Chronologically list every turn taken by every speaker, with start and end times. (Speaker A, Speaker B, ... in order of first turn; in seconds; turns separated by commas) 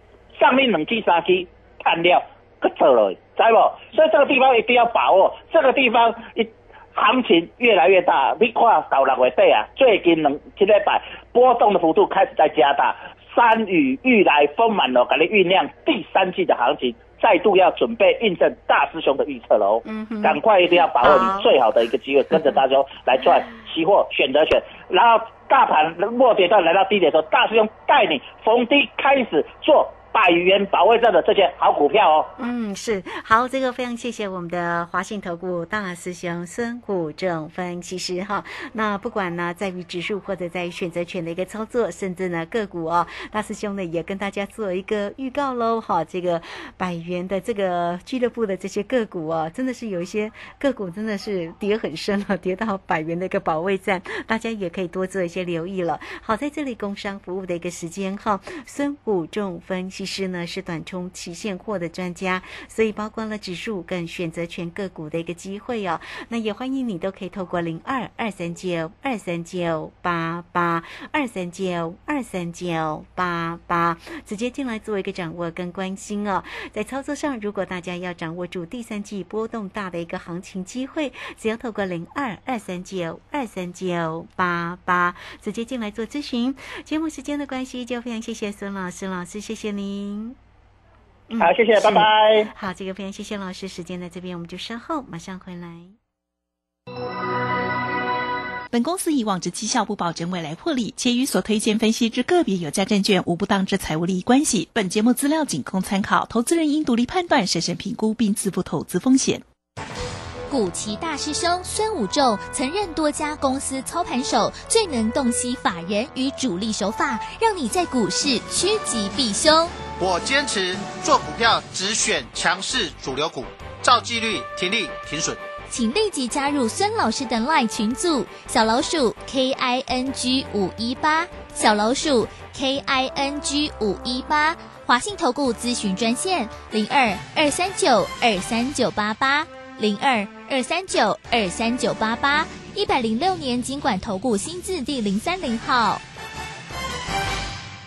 Speaker A: 0.4-32.3, Speaker B: 19.9-20.4, Speaker B: 21.0-21.5, Speaker B: 32.4-90.4, Speaker B: 91.3-96.0, Speaker A: 91.4-92.5, Speaker C: 98.7-109.4, Speaker D: 110.5-119.7, Speaker E: 120.0-125.4, Speaker D: 125.7-146.0